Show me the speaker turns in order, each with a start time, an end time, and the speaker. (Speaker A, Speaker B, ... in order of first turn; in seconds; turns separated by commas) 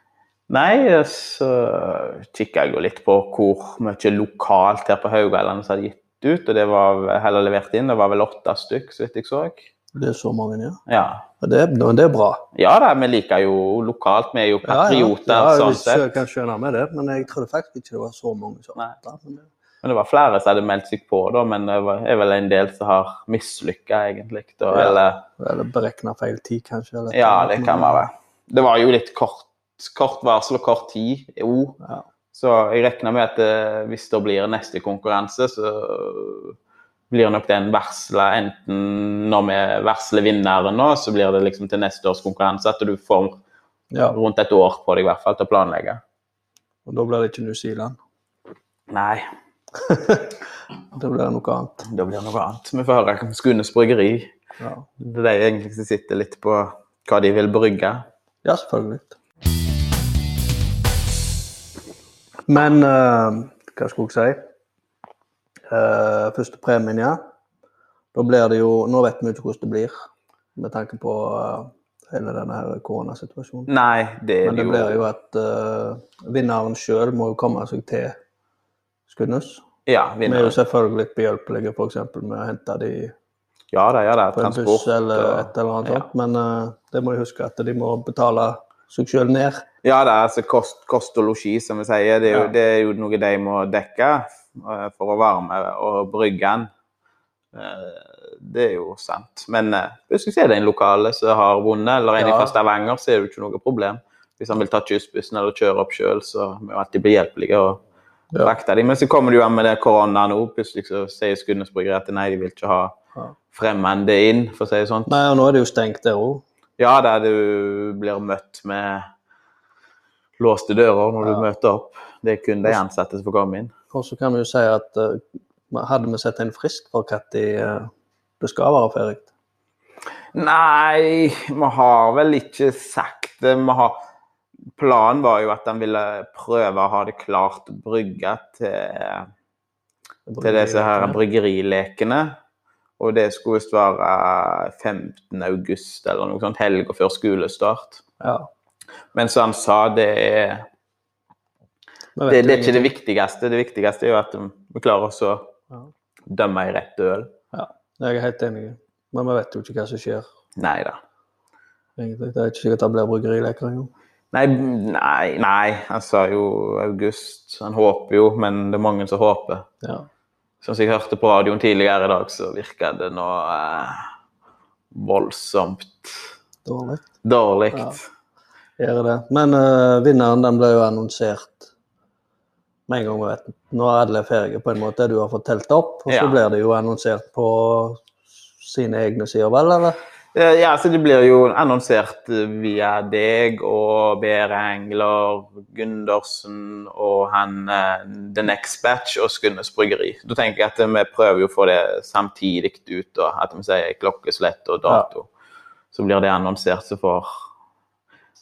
Speaker A: 0.5-9.7, Speaker B: 10.0-10.8, Speaker A: 10.9-11.3, Speaker B: 11.4-12.4, Speaker A: 12.6-16.1, Speaker B: 14.7-19.5, Speaker A: 19.8-25.3, Speaker B: 24.7-28.0, Speaker A: 27.1-31.8, Speaker A: 32.3-36.6, Speaker A: 37.1-43.4, Speaker B: 43.9-44.2, Speaker A: 44.1-46.0, Speaker B: 46.9-48.0, Speaker A: 48.9-49.2, Speaker B: 49.9-50.3, Speaker B: 50.9-51.9, Speaker A: 51.8-54.3, Speaker B: 54.6-54.9, Speaker A: 55.0-58.0, Speaker B: 58.5-59.2, Speaker B: 62.5-64.4, Speaker B: 65.7-67.2, Speaker B: 68.1-70.0, Speaker B: 70.6-73.7, Speaker A: 73.7-75.0, Speaker B: 74.4-78.2, Speaker B: 79.1-79.7, Speaker A: 79.9-80.6, Speaker B: 80.2-83.1, Speaker A: 83.7-86.1, Speaker B: 84.4-89.7, Speaker A: 89.8-96.7, Speaker A: 97.5-107.8, Speaker B: 102.2-102.6, Speaker A: 108.4-113.0, Speaker A: 113.5-115.1, Speaker B: 115.1-116.4, Speaker A: 116.8-119.1, Speaker A: 120.4-123.7, Speaker B: 123.9-127.9, Speaker B: 128.4-129.3, Speaker A: 130.3-134.0, Speaker A: 134.8-139.3, Speaker B: 140.3-141.2, Speaker A: 140.4-142.3, Speaker A: 143.0-148.0, Speaker B: 148.2-148.5, Speaker A: 149.1-150.7, Speaker B: 152.2-152.9, Speaker A: 152.3-155.5, Speaker A: 156.3-157.3, Speaker B: 157.5-160.3, Speaker A: 160.6-161.0, Speaker B: 162.0-163.9, Speaker A: 164.3-169.7, Speaker A: 170.6-174.1, Speaker A: 174.9-176.3, Speaker B: 176.7-177.0, Speaker A: 177.2-178.1, Speaker B: 178.8-181.7, Speaker B: 182.9-190.0, Speaker A: 186.1-186.4, Speaker A: 190.3-205.3, Speaker A: 205.9-207.3